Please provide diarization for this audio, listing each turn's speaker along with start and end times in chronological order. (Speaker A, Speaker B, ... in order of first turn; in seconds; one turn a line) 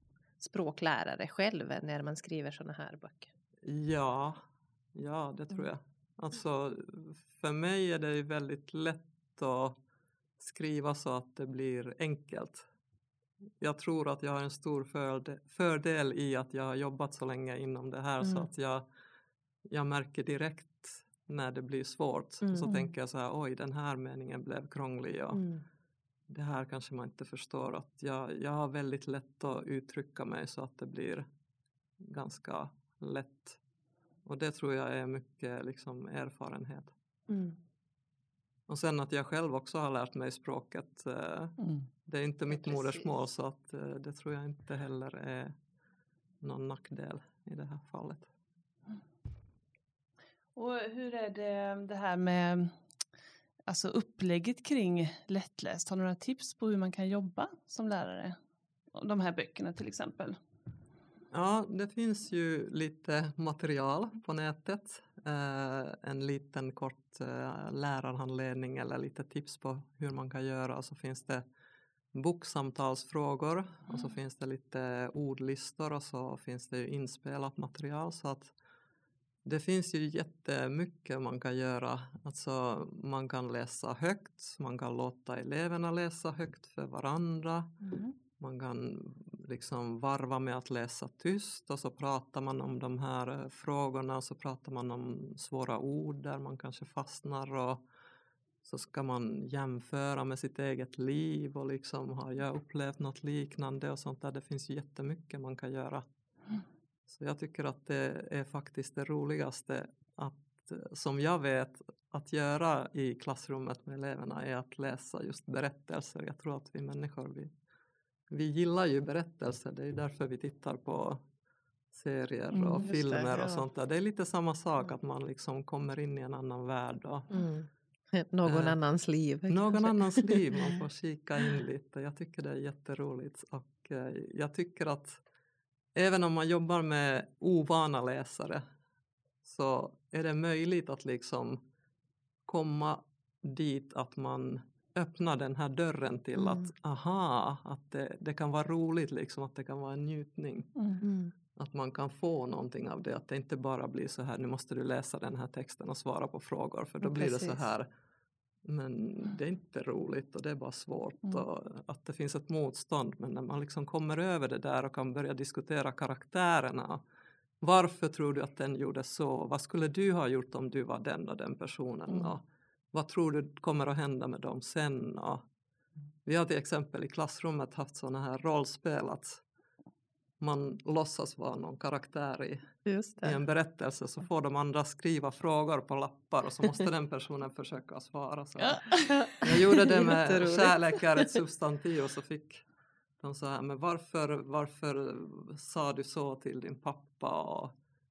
Speaker A: 0.4-3.3
Speaker B: 3.6-4.4
Speaker B: 5.0-9.8
Speaker B: 10.4-12.7
Speaker B: 13.6-18.9
Speaker B: 19.7-25.4
Speaker A: 22.4-22.9
Speaker A: 25.3-25.6
Speaker B: 26.3-31.2
Speaker B: 32.0-33.6
Speaker B: 34.2-36.9
Speaker A: 37.3-37.6
Speaker B: 38.7-45.6
Speaker C: 41.6-41.9
Speaker A: 42.5-43.0
Speaker B: 46.4-48.3
Speaker C: 50.6-52.8
Speaker C: 53.7-58.4
Speaker C: 58.9-60.4
Speaker B: 61.3-71.4
Speaker B: 72.1-78.5
Speaker B: 79.5-87.8
Speaker C: 87.8-88.1
Speaker B: 88.4-97.8
Speaker B: 98.7-106.0
Speaker B: 107.1-117.5
Speaker B: 118.3-121.2
Speaker B: 121.9-127.3
Speaker A: 122.5-123.6
Speaker A: 127.3-130.8
Speaker B: 128.5-128.8
Speaker B: 129.5-135.2
Speaker B: 135.9-138.6
Speaker B: 139.4-141.6
Speaker B: 142.5-150.7
Speaker A: 146.4-146.7
Speaker C: 150.8-151.0
Speaker A: 151.0-151.3
Speaker B: 151.6-157.9
Speaker A: 157.0-157.6
Speaker B: 158.7-167.0
Speaker B: 167.6-172.4
Speaker B: 172.9-175.4
Speaker B: 176.2-179.4
Speaker B: 180.4-182.6
Speaker A: 182.9-183.4
Speaker B: 183.2-192.6
Speaker C: 188.6-189.4
Speaker A: 189.1-191.3
Speaker B: 193.2-197.7